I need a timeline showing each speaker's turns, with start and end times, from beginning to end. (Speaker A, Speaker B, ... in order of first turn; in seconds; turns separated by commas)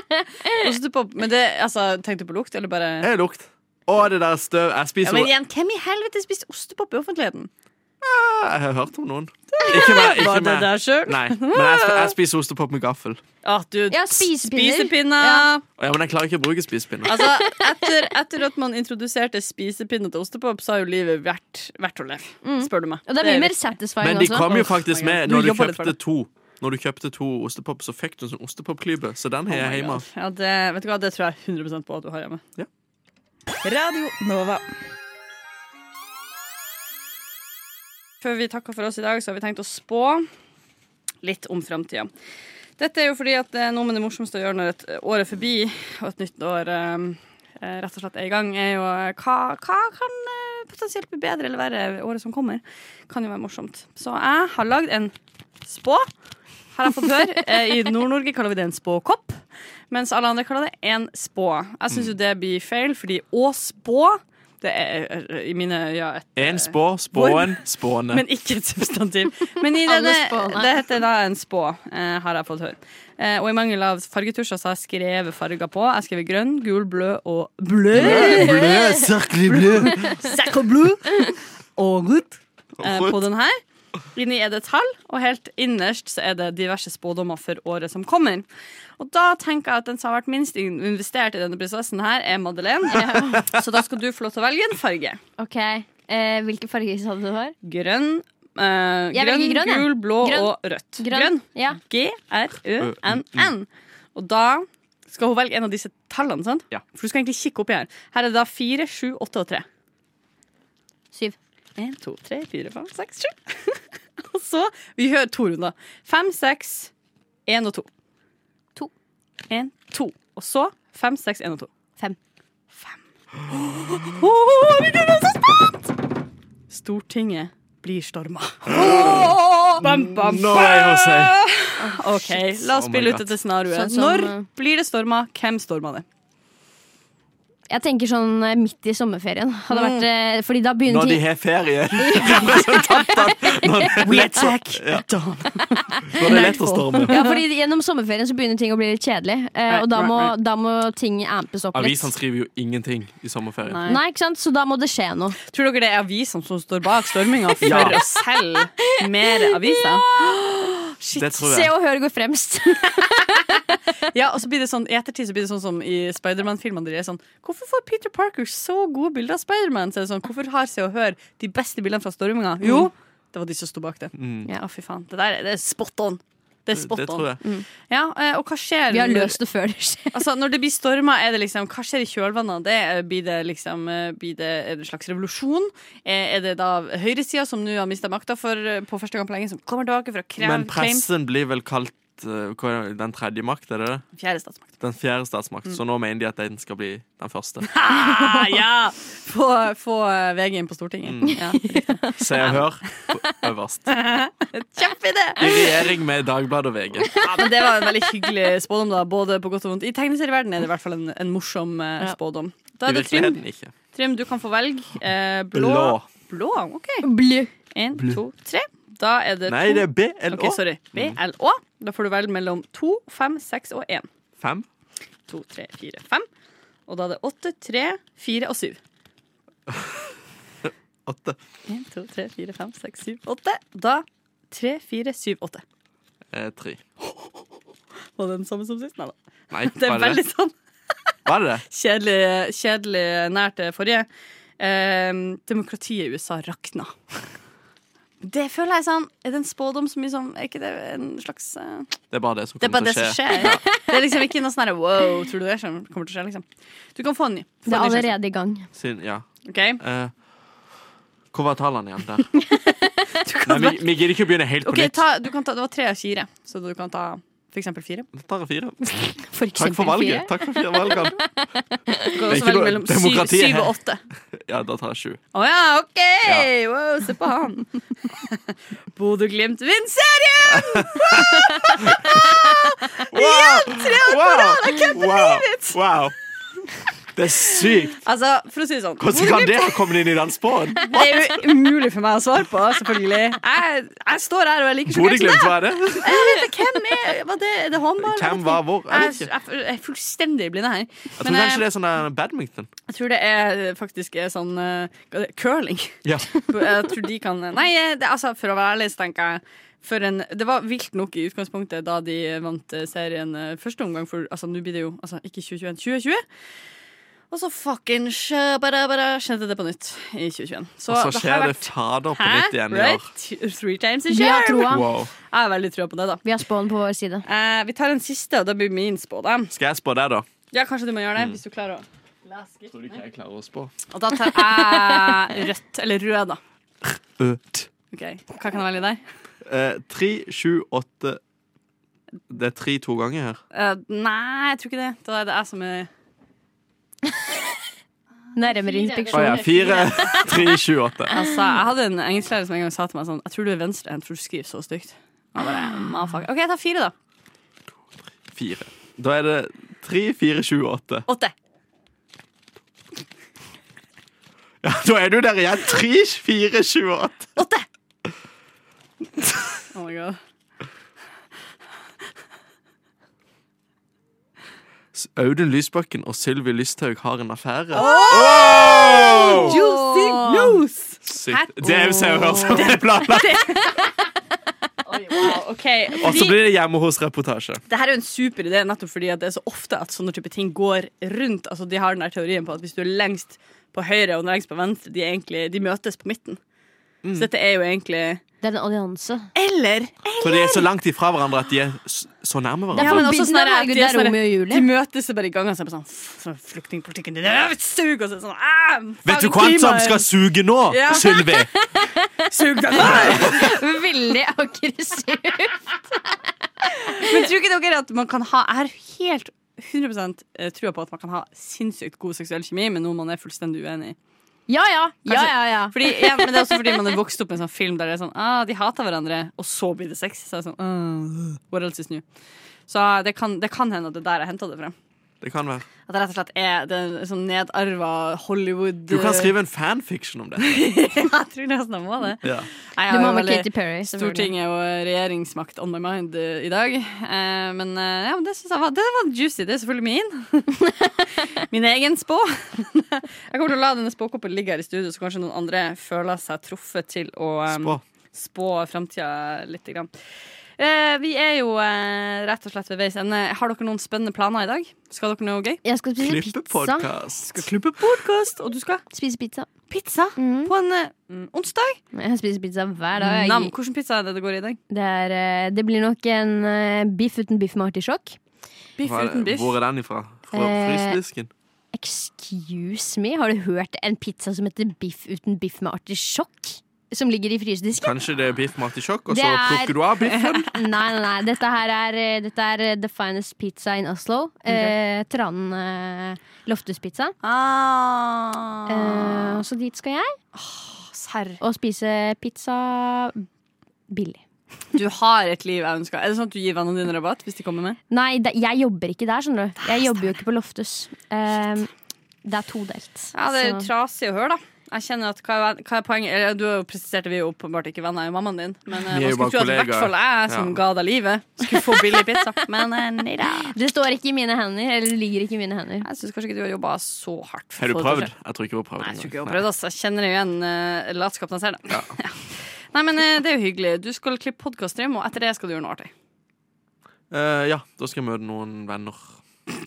Speaker A: 0.5-3.1, Speaker B: 3.0-5.3, Speaker A: 5.0-7.5, Speaker B: 8.0-13.2, Speaker A: 9.5-12.1, Speaker A: 13.4-15.6, Speaker C: 13.9-15.5, Speaker B: 15.8-17.3, Speaker A: 17.1-23.6, Speaker C: 22.4-24.7, Speaker B: 24.0-30.1, Speaker A: 24.5-25.9, Speaker A: 29.5-32.4, Speaker A: 33.6-34.7, Speaker A: 38.2-40.3, Speaker A: 41.2-42.1, Speaker A: 42.8-55.1, Speaker A: 55.6-56.1, Speaker A: 56.7-78.7, Speaker B: 66.3-68.2, Speaker C: 69.8-70.8, Speaker B: 77.9-80.1, Speaker C: 78.0-79.0, Speaker A: 79.5-83.6, Speaker C: 79.9-80.2, Speaker B: 82.8-83.2, Speaker A: 84.1-88.5, Speaker A: 89.0-95.2, Speaker C: 92.9-93.4, Speaker C: 95.4-97.5, Speaker A: 97.6-109.6, Speaker C: 99.1-101.8, Speaker B: 102.8-103.5, Speaker A: 111.8-116.9, Speaker A: 117.5-117.9, Speaker A: 119.5-121.7, Speaker A: 123.5-125.6, Speaker A: 126.7-136.0, Speaker B: 128.7-131.4, Speaker C: 131.8-132.4, Speaker B: 132.6-133.3, Speaker C: 133.7-134.4, Speaker C: 137.7-141.3, Speaker A: 139.7-140.0, Speaker B: 140.8-145.1, Speaker C: 142.0-144.0, Speaker A: 144.0-147.3, Speaker B: 146.1-147.2, Speaker C: 147.1-152.1, Speaker A: 149.7-150.3, Speaker B: 151.7-153.8, Speaker A: 153.7-154.0, Speaker C: 153.8-155.4, Speaker A: 155.5-160.1, Speaker B: 157.6-158.0, Speaker C: 158.8-163.8, Speaker B: 161.2-161.7, Speaker A: 164.1-179.4, Speaker C: 172.6-172.9, Speaker B: 174.1-174.5, Speaker B: 176.7-177.4, Speaker C: 178.9-180.2, Speaker A: 180.1-191.1, Speaker B: 190.4-194.0, Speaker A: 194.1-194.8, Speaker B: 194.8-197.8, Speaker A: 197.6-202.6, Speaker B: 201.0-201.4, Speaker C: 201.6-202.1, Speaker B: 202.1-203.9, Speaker A: 203.9-205.8, Speaker B: 205.4-207.1, Speaker A: 207.1-213.4, Speaker C: 207.1-207.4, Speaker B: 212.8-213.7, Speaker A: 213.9-217.1, Speaker B: 215.5-216.1, Speaker C: 217.0-217.5, Speaker A: 217.7-224.1, Speaker B: 217.9-218.2, Speaker B: 219.5-221.2, Speaker B: 224.4-224.7, Speaker A: 225.3-226.3, Speaker A: 226.9-228.8, Speaker B: 229.7-230.1, Speaker B: 230.6-231.4, Speaker A: 231.7-235.6, Speaker B: 236.3-236.8, Speaker A: 238.2-240.5, Speaker B: 239.5-240.2, Speaker B: 241.2-241.6, Speaker A: 241.7-244.1, Speaker A: 244.6-246.9, Speaker A: 248.2-251.9, Speaker B: 252.1-253.6, Speaker A: 252.6-258.1, Speaker C: 257.7-258.7, Speaker B: 258.7-259.3, Speaker A: 259.4-259.8, Speaker B: 259.8-260.1, Speaker B: 261.3-262.3, Speaker A: 263.2-263.8, Speaker B: 263.5-265.0, Speaker A: 264.6-268.1, Speaker B: 268.1-271.2, Speaker C: 269.3-272.1, Speaker A: 272.1-274.0, Speaker B: 272.2-273.7, Speaker B: 274.3-275.2, Speaker A: 275.3-278.4, Speaker A: 278.9-285.8, Speaker B: 280.5-282.2, Speaker B: 283.1-286.1, Speaker B: 287.1-288.0, Speaker A: 288.0-289.9, Speaker B: 289.0-291.3, Speaker A: 290.9-301.6, Speaker B: 294.9-296.4, Speaker B: 298.0-299.3, Speaker B: 301.2-302.7, Speaker A: 302.9-316.2, Speaker B: 306.0-306.5, Speaker A: 317.3-324.8, Speaker B: 320.9-323.1, Speaker C: 324.1-324.9, Speaker B: 324.6-325.1, Speaker A: 325.3-326.2, Speaker C: 326.2-327.2, Speaker A: 327.2-329.5, Speaker B: 329.5-330.2, Speaker A: 330.5-333.0, Speaker B: 332.7-333.7, Speaker A: 333.9-336.4, Speaker B: 337.2-337.7, Speaker A: 337.9-339.0, Speaker B: 339.4-341.2, Speaker B: 342.3-343.4, Speaker A: 343.5-345.9, Speaker C: 348.4-350.3, Speaker A: 348.5-350.0, Speaker B: 349.1-351.1, Speaker A: 351.1-356.9, Speaker B: 358.3-361.1, Speaker A: 361.1-361.3, Speaker B: 364.6-367.3, Speaker A: 367.4-367.6, Speaker A: 369.7-370.2, Speaker B: 374.9-379.6, Speaker A: 377.7-383.8, Speaker C: 377.8-380.6, Speaker B: 381.0-383.4, Speaker A: 384.8-386.4, Speaker B: 386.0-387.6, Speaker A: 387.7-396.4, Speaker B: 397.0-397.3, Speaker A: 397.1-398.2, Speaker C: 398.4-399.3, Speaker A: 399.3-400.6, Speaker B: 400.2-403.1, Speaker C: 402.7-404.7, Speaker A: 402.8-410.1, Speaker B: 409.0-411.5, Speaker A: 410.7-411.3, Speaker C: 411.4-415.7, Speaker A: 412.3-413.5, Speaker B: 412.8-413.5, Speaker A: 416.7-423.9, Speaker C: 416.9-417.2, Speaker C: 424.5-426.9, Speaker A: 425.1-432.0, Speaker A: 432.7-434.7, Speaker B: 435.2-435.7, Speaker A: 435.9-439.3, Speaker B: 438.9-440.6, Speaker A: 440.4-450.7, Speaker B: 442.2-442.5, Speaker C: 442.9-444.3, Speaker A: 451.4-459.9, Speaker B: 457.5-457.8, Speaker A: 460.6-465.6, Speaker C: 465.6-466.9, Speaker B: 466.0-467.5, Speaker A: 467.2-468.8, Speaker C: 468.9-469.5, Speaker A: 469.7-471.8, Speaker C: 470.1-470.5, Speaker C: 471.9-473.5, Speaker A: 472.9-474.6, Speaker C: 474.7-478.2, Speaker A: 478.8-479.6, Speaker B: 478.8-481.3, Speaker C: 480.3-481.0, Speaker C: 481.7-488.0, Speaker B: 487.8-490.5, Speaker C: 489.1-489.8, Speaker A: 490.0-490.4, Speaker C: 490.5-497.1, Speaker A: 494.5-494.7, Speaker A: 497.2-499.4, Speaker C: 498.7-500.1, Speaker A: 500.3-501.4, Speaker C: 501.4-503.2, Speaker C: 503.9-504.2, Speaker A: 504.7-507.8, Speaker C: 507.9-511.7, Speaker A: 509.6-510.0, Speaker C: 512.2-513.7, Speaker A: 513.1-523.5, Speaker B: 518.9-520.6, Speaker C: 521.5-522.3, Speaker C: 523.4-525.9, Speaker A: 525.8-528.1, Speaker B: 527.6-529.4, Speaker A: 528.8-535.9, Speaker B: 537.1-539.2